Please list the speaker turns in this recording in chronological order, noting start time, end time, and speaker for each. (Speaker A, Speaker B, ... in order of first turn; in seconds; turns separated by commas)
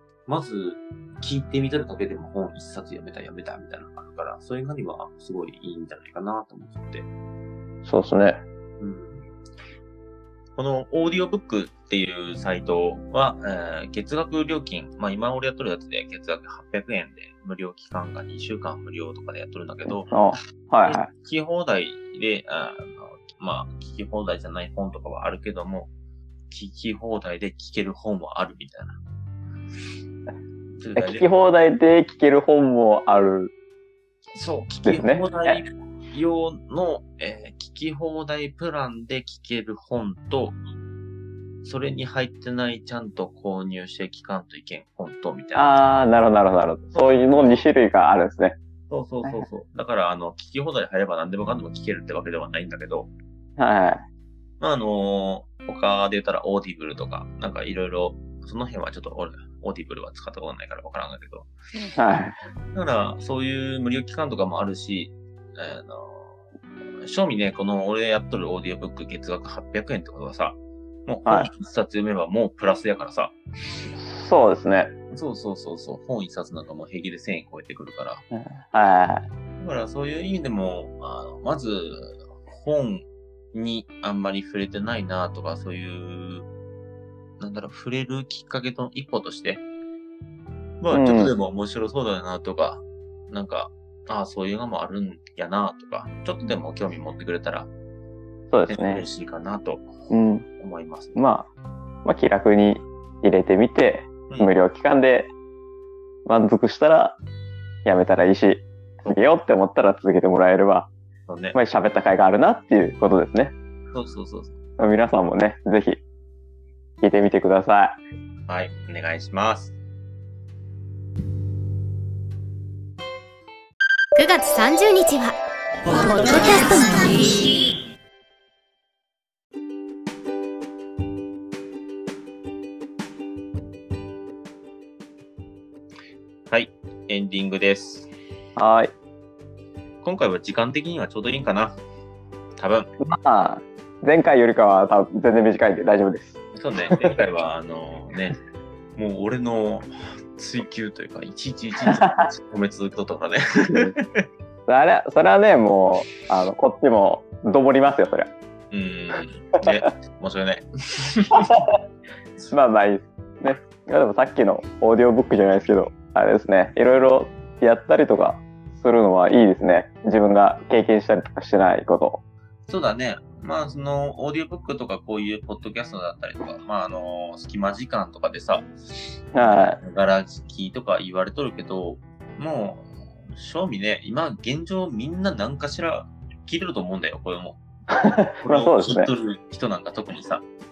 Speaker A: 0.3-7.1, Speaker B: 7.8-8.4, Speaker A: 8.8-9.3, Speaker A: 10.6-20.1, Speaker B: 20.1-21.1, Speaker A: 20.9-25.9, Speaker A: 26.5-29.0, Speaker A: 30.8-31.3, Speaker B: 31.0-33.5, Speaker A: 34.4-40.6, Speaker B: 34.9-35.6, Speaker A: 41.6-45.8, Speaker B: 45.5-48.6, Speaker A: 46.9-47.6, Speaker A: 48.9-53.1, Speaker B: 53.6-54.0, Speaker A: 54.6-61.5, Speaker B: 61.9-62.4, Speaker A: 62.8-66.3, Speaker A: 67.0-73.4, Speaker B: 74.0-74.9, Speaker A: 75.1-78.2, Speaker B: 78.3-79.3, Speaker A: 79.6-86.5, Speaker A: 87.4-89.6, Speaker A: 90.8-97.7, Speaker B: 90.9-91.3, Speaker B: 98.5-99.0, Speaker A: 98.7-99.9, Speaker B: 100.1-100.5, Speaker A: 100.6-101.2, Speaker B: 101.2-101.5, Speaker B: 102.0-105.3, Speaker B: 106.3-107.2, Speaker B: 107.8-110.9, Speaker A: 111.3-111.6, Speaker B: 111.5-113.5, Speaker A: 113.9-114.6, Speaker B: 114.8-116.0, Speaker B: 117.0-118.0, Speaker A: 118.5-119.8, Speaker C: 124.2-125.4, Speaker C: 125.9-127.6, Speaker A: 136.5-138.1, Speaker B: 138.6-138.9, Speaker A: 140.0-141.8, Speaker A: 142.6-142.9, Speaker B: 143.0-146.4, Speaker A: 146.6-148.4, Speaker A: 149.0-154.3, Speaker B: 151.9-152.3, Speaker B: 154.7-158.3, Speaker A: 158.7-161.6, Speaker B: 161.3-161.7, Speaker B: 162.5-172.2, Speaker A: 172.7-178.7, Speaker A: 179.3-187.6, Speaker B: 179.4-179.8, Speaker B: 187.9-189.1, Speaker A: 188.4-190.4